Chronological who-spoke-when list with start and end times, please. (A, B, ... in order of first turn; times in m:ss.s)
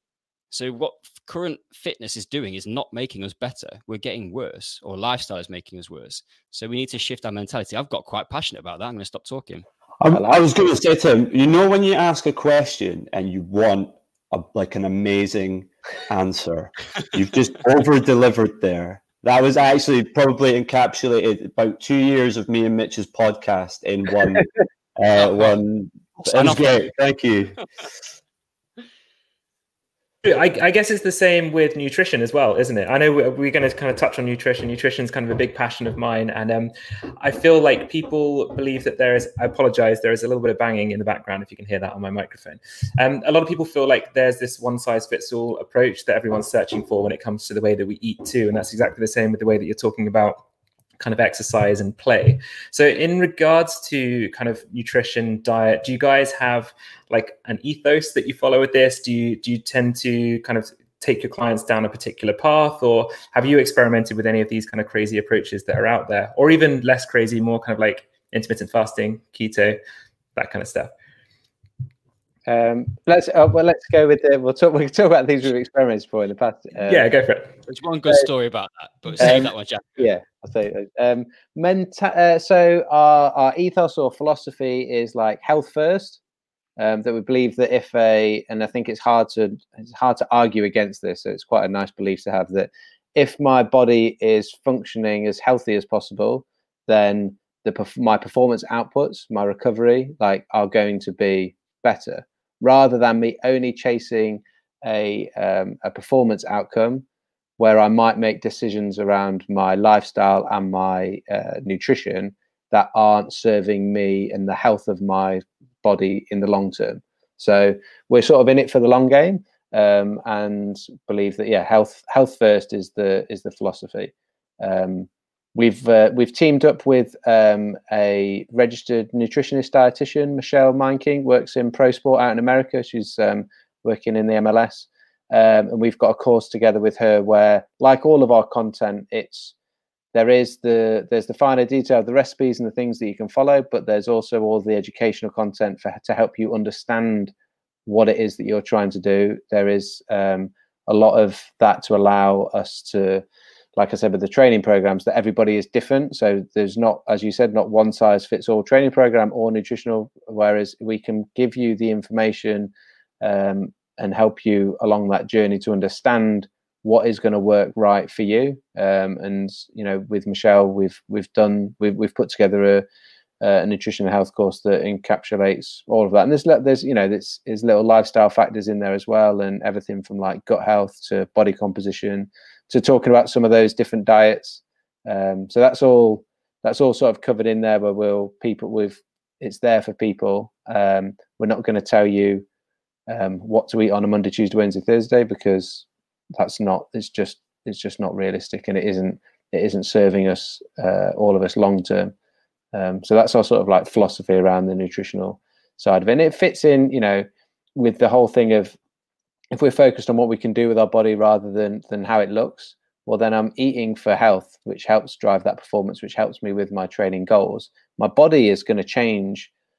0:00.5-0:09.6 A
0:10.0-0:27.6 B
0:10.1-0:10.7 C
0:25.2-0:25.6 A
0:26.2-0:26.9 A
0:30.2-0:50.4 D
0:51.0-1:09.8 D
1:10.3-1:10.9 D
1:12.5-1:17.1 C
1:16.9-1:17.6 D
1:17.7-1:20.0 A
1:19.2-1:26.2 C
1:26.8-1:47.0 C
1:47.6-2:19.5 C
2:20.1-2:27.3 C
2:27.8-2:33.2 C
2:33.8-2:52.8 C
2:53.4-3:12.4 C
3:13.1-3:22.1 C
3:22.7-3:28.8 C
3:29.5-3:39.5 C